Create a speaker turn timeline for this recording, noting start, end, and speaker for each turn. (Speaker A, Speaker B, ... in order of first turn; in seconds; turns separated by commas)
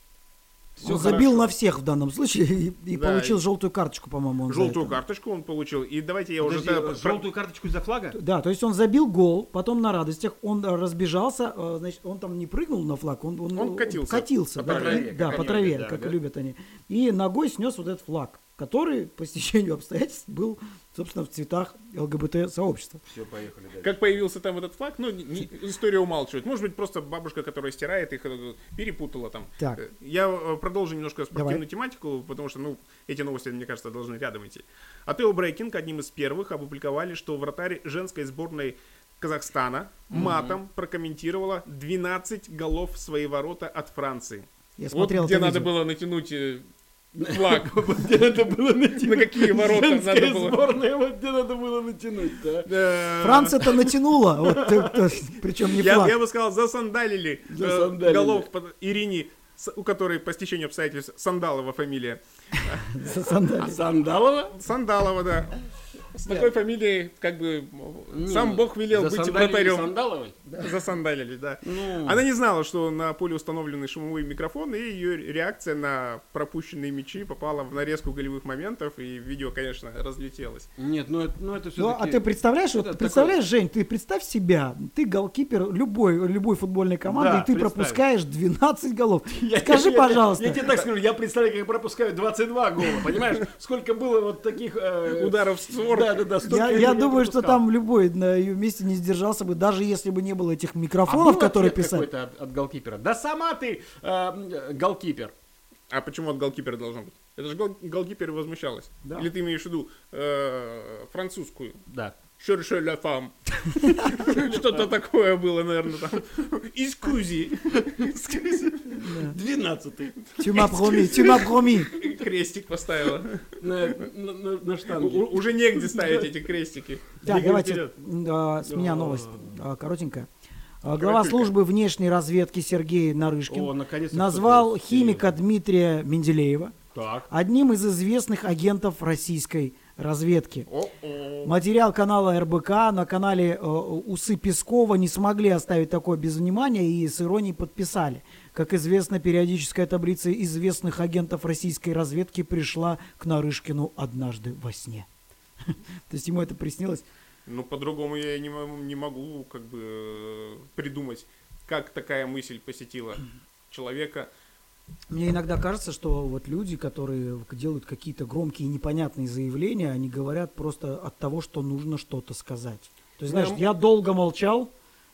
Speaker A: 0.8-1.3, Speaker B: 0.8-1.5, Speaker C: 0.8-5.0, Speaker B: 2.9-3.4, Speaker B: 4.5-7.2, Speaker A: 6.4-8.2, Speaker C: 8.1-23.0, Speaker B: 13.5-15.4, Speaker A: 14.6-16.2, Speaker A: 23.1-24.0, Speaker B: 23.8-46.7, Speaker C: 31.3-31.6, Speaker A: 40.1-40.6, Speaker C: 44.8-45.7, Speaker A: 47.2-52.9, Speaker B: 47.2-48.1, Speaker B: 49.0-50.6, Speaker B: 52.7-53.8, Speaker C: 53.2-56.2, Speaker A: 54.4-55.0, Speaker B: 55.7-63.0, Speaker A: 57.5-58.5, Speaker C: 62.7-63.8, Speaker A: 63.6-64.6, Speaker B: 64.5-65.6, Speaker B: 66.1-69.9, Speaker A: 68.1-70.5, Speaker B: 70.5-80.7, Speaker A: 71.6-72.2, Speaker A: 80.8-83.4, Speaker C: 81.8-90.7, Speaker A: 87.1-88.0, Speaker A: 89.3-97.6, Speaker B: 95.1-96.3, Speaker C: 96.4-102.1, Speaker A: 101.0-105.3, Speaker B: 105.9-111.8, Speaker C: 109.0-109.3, Speaker A: 111.9-112.2, Speaker B: 112.4-119.0, Speaker A: 114.1-114.9, Speaker A: 117.8-120.6, Speaker C: 119.0-119.4, Speaker B: 120.4-123.6, Speaker C: 120.4-121.9, Speaker A: 123.6-126.3, Speaker B: 124.9-127.1, Speaker A: 127.2-128.0, Speaker C: 127.2-130.3, Speaker A: 128.6-129.5, Speaker C: 130.8-136.8, Speaker B: 130.9-131.5, Speaker A: 133.5-135.3, Speaker A: 136.9-137.3, Speaker C: 137.3-140.7, Speaker B: 140.7-141.5, Speaker C: 141.4-155.1, Speaker C: 155.6-157.1, Speaker B: 157.4-164.3, Speaker C: 165.1-174.7, Speaker A: 173.3-173.6